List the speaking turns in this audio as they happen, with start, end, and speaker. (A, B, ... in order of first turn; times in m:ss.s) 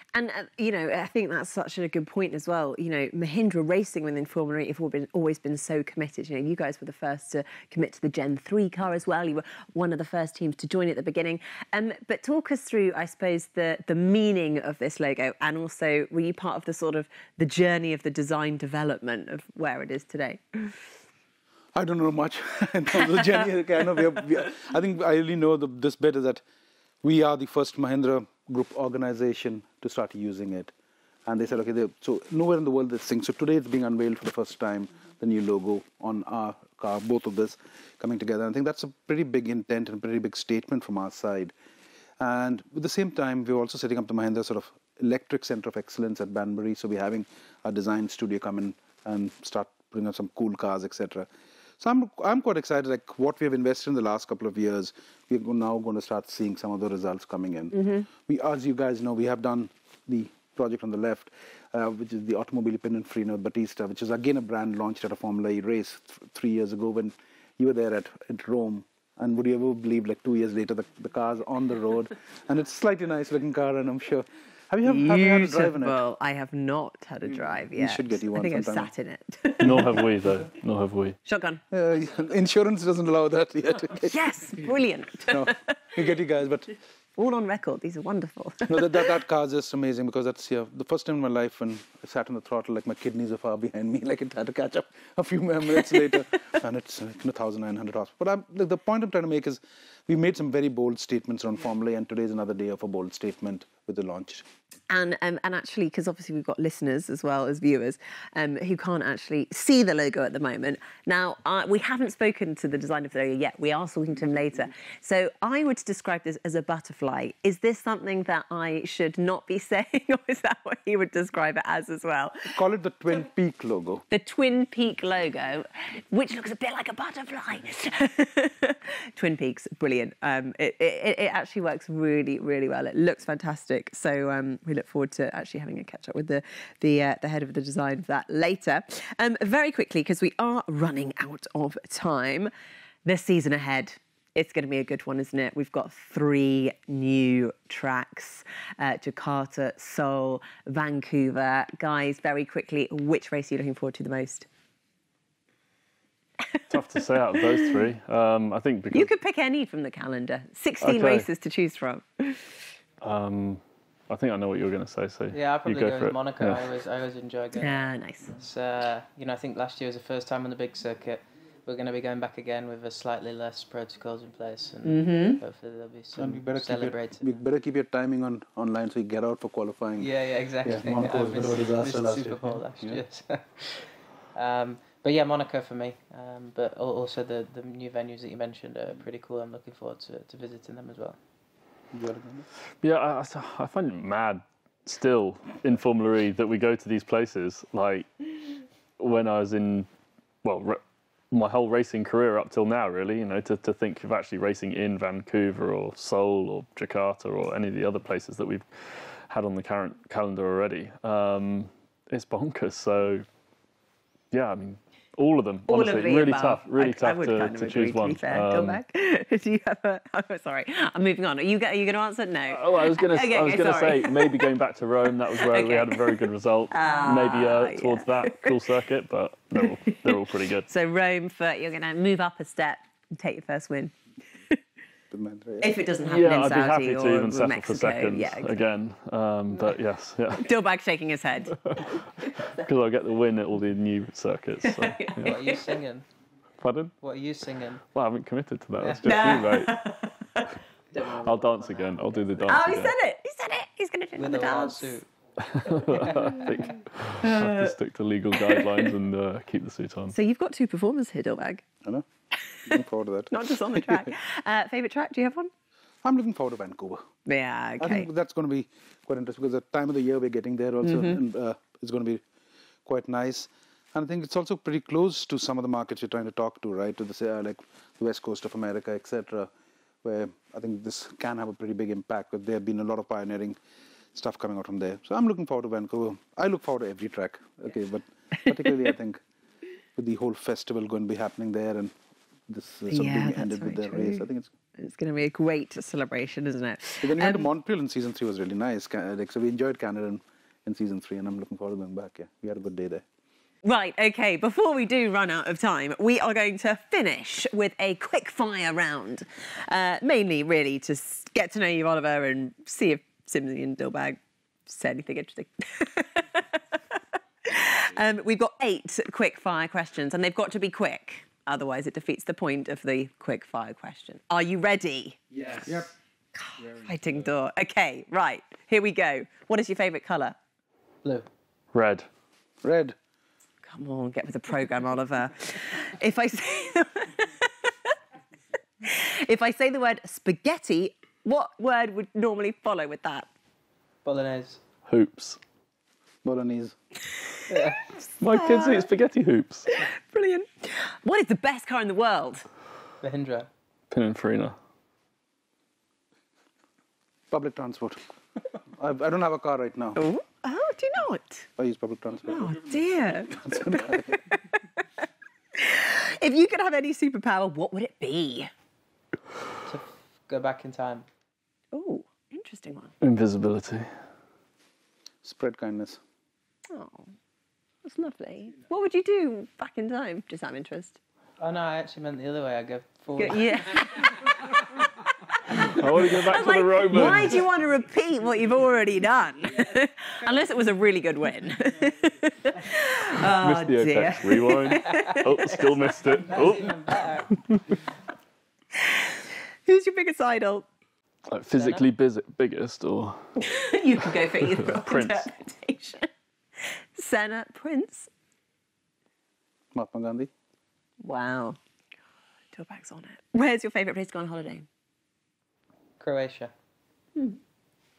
0:00.1-0:20.8 A
0:21.7-0:26.4 B
0:27.0-0:30.7 B
0:31.2-0:41.5 B
0:42.2-1:16.0 B
0:57.7-0:58.1 A
1:14.8-1:20.0 A
1:17.7-1:18.9 B
1:19.6-1:21.2 C
1:21.2-1:21.6 A
1:21.7-1:24.2 B
1:24.0-1:25.9 A
1:25.3-1:26.7 B
1:27.2-1:29.1 A
1:28.7-1:44.5 B
1:44.9-2:02.5 A
2:02.5-2:04.0 B
2:04.1-2:22.5 A
2:23.0-2:34.5 A
2:36.7-2:39.1 C
2:37.3-2:37.7 A
2:38.9-2:42.6 A
2:40.8-2:41.3 C
2:43.0-2:46.7 C
2:45.3-2:47.8 D
2:47.6-2:48.4 A
2:48.4-2:57.4 D
2:54.8-2:55.4 A
2:56.1-3:03.0 B
3:00.0-3:11.2 D
3:11.9-3:12.5 B
3:12.8-3:18.3 C
3:19.0-3:19.9 C
3:20.4-3:33.2 C
3:34.3-3:38.8 C
3:35.7-3:44.5 A
3:42.5-3:50.7 C
3:45.3-3:48.6 A
3:49.6-3:50.1 A
3:50.6-3:54.0 A
3:55.1-3:55.7 B
3:55.6-3:58.6 A
3:56.0-4:00.5 C
4:00.4-4:02.6 A
4:01.6-4:05.4 C
4:04.6-4:05.7 A
4:05.2-4:06.0 D
4:06.6-4:06.9 C
4:07.0-4:07.8 D
4:07.9-4:09.7 C
4:08.8-4:09.4 D
4:09.0-4:11.6 A
4:11.0-4:12.9 C
4:12.4-4:15.0 A
4:14.2-4:15.0 D
4:15.4-4:20.1 C
4:15.9-4:16.4 D
4:17.2-4:17.8 A
4:18.3-4:18.8 A
4:20.1-4:21.6 A
4:22.4-4:22.7 A
4:22.6-4:24.1 B
4:23.3-4:25.5 A
4:26.0-4:27.0 B
4:27.2-4:28.1 A
4:27.8-4:32.2 B
4:30.8-4:31.2 A
4:32.8-4:39.5 B
4:40.0-4:43.6 B
4:44.1-4:49.2 B
4:50.0-4:51.9 B
4:52.5-4:54.5 B
4:52.9-4:54.2 A
4:54.8-4:57.5 A
4:57.0-5:03.0 B
5:03.6-5:25.8 A
5:26.3-5:30.4 A
5:31.7-5:32.0 C
5:32.6-5:32.9 B
5:33.6-5:37.9 A
5:38.8-5:43.3 A
5:44.0-5:44.6 D
5:44.8-5:45.4 C
5:46.2-5:46.8 B
5:47.4-5:47.8 A
5:47.5-5:47.8 D
5:48.2-5:49.7 C
5:48.3-5:48.9 A
5:49.7-5:52.4 A
5:53.0-5:53.5 D
5:53.9-5:54.6 C
5:57.3-5:58.0 B
5:58.7-6:00.0 B
6:00.0-6:01.5 A
6:01.6-6:02.7 B
6:02.2-6:04.8 A
6:03.3-6:04.3 B
6:05.6-6:08.5 A
6:09.6-6:11.1 D
6:11.7-6:12.9 A
6:13.0-6:13.9 C
6:15.2-6:16.0 B
6:16.7-6:17.1 A
6:17.8-6:21.0 A
6:21.4-6:24.1 D
6:23.2-6:24.5 A
6:25.5-6:35.7 A
6:25.6-6:27.4 C
6:33.2-6:37.1 C
6:34.9-6:35.2 D
6:36.2-6:37.7 D
6:38.8-6:40.7 A
6:41.3-6:43.4 C
6:41.5-6:41.8 D
6:43.4-6:46.1 A
6:44.6-6:45.3 C
6:46.6-6:48.1 A
6:49.7-6:50.3 B
6:51.0-6:51.6 A
6:52.5-6:54.6 A
6:56.0-6:56.5 D